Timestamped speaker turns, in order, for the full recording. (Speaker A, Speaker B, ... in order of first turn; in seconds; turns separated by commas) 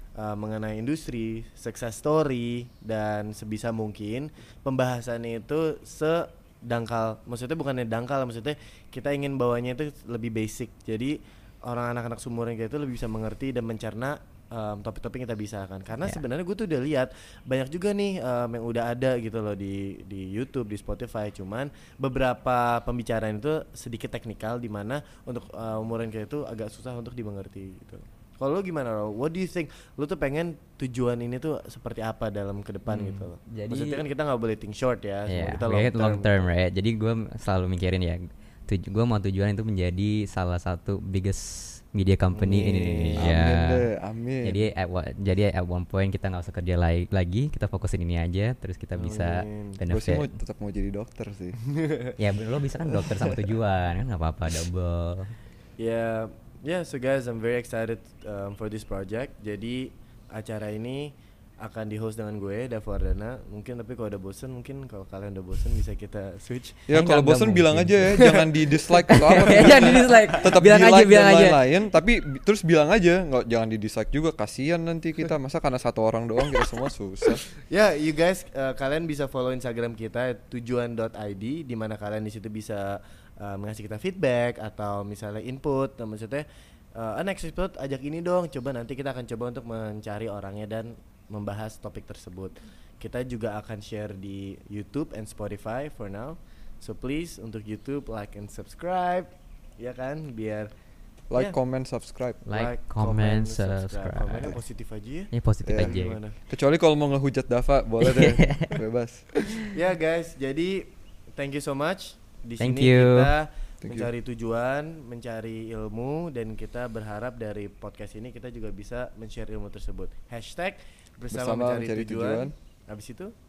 Speaker A: 0.2-36.4, Speaker B: 32.9-34.0, Speaker B: 35.3-43.9, Speaker A: 42.3-43.3, Speaker C: 43.2-44.6, Speaker B: 44.4-50.4, Speaker A: 49.0-49.8, Speaker C: 49.9-51.6, Speaker A: 51.7-52.1, Speaker B: 52.2-55.3, Speaker C: 53.0-53.3, Speaker A: 55.8-66.9, Speaker C: 66.9-77.4, Speaker B: 66.9-71.6, Speaker A: 69.3-70.5, Speaker A: 77.7-86.5, Speaker A: 87.0-100.7, Speaker C: 101.3-102.4, Speaker B: 102.4-104.6, Speaker A: 102.5-106.4, Speaker B: 105.3-106.2, Speaker C: 105.7-109.3, Speaker B: 108.0-108.8, Speaker A: 109.7-123.3, Speaker B: 112.6-113.3, Speaker C: 113.8-114.1, Speaker C: 121.3-122.5